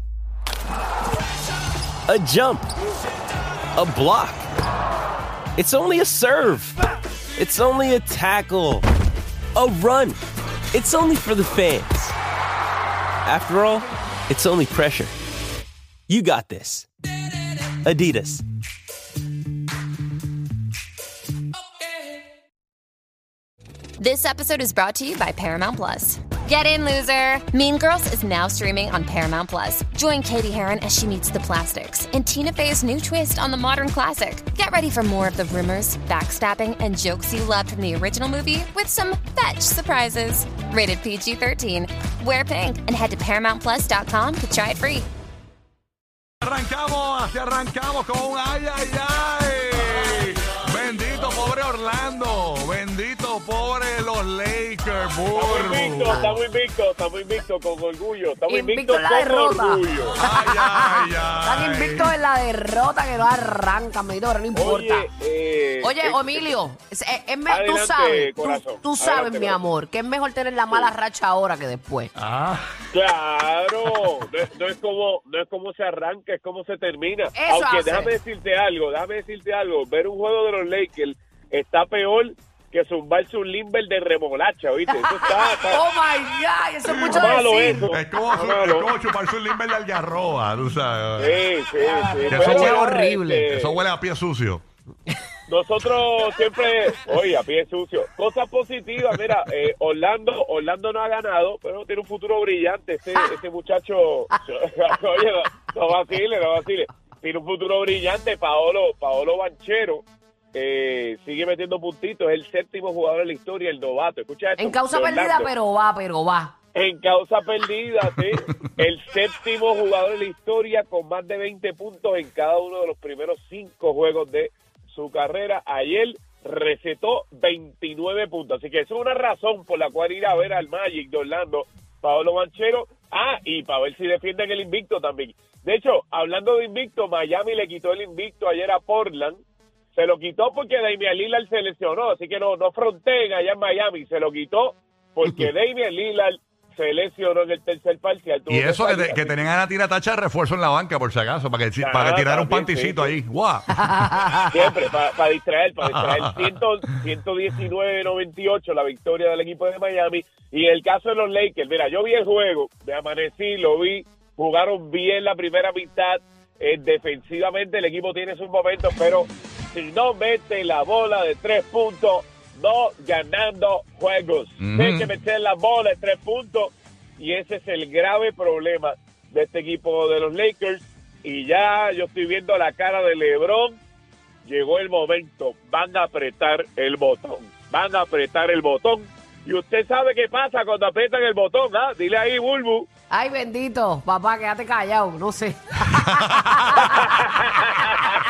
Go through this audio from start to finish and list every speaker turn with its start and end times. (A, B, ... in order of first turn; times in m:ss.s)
0:02.1-0:02.7 A
0:03.8-0:04.5 A
0:05.6-0:06.8 A
0:07.4-0:08.8 A
0:09.5-0:10.2 A
0:10.7-0:12.1 A
0:13.2-0:15.1 A
0:16.1-0:16.9 A
0:17.8-0:18.4 A
0:24.0-0:45.1 B
0:46.4-0:56.3 C
0:55.3-1:00.2 D
0:56.1-0:56.3 E
0:58.5-1:05.1 E
1:00.2-1:02.1 C
1:04.5-1:06.5 D
1:05.8-1:12.1 E
1:07.5-1:09.6 D
1:12.2-1:12.7 C
1:12.9-1:25.8 D
1:17.3-1:18.1 E
1:25.0-1:27.9 E
1:26.9-1:27.2 C
1:27.1-1:28.9 D
1:27.9-1:31.4 C
1:31.2-1:33.8 D
1:31.8-1:33.5 E
1:32.3-1:34.6 C
1:35.5-1:55.5 D
1:54.6-1:56.5 E
1:56.7-2:19.4 D
2:19.9-2:29.3 D
2:28.5-2:33.8 C
2:31.8-2:33.1 D
2:33.8-2:34.5 E
2:34.5-3:03.8 D
2:35.8-2:36.5 C
2:54.6-2:55.1 C
3:04.4-3:12.9 D
3:13.1-3:17.3 E
3:16.1-3:16.9 C
3:16.9-3:18.2 D
3:17.9-3:18.2 E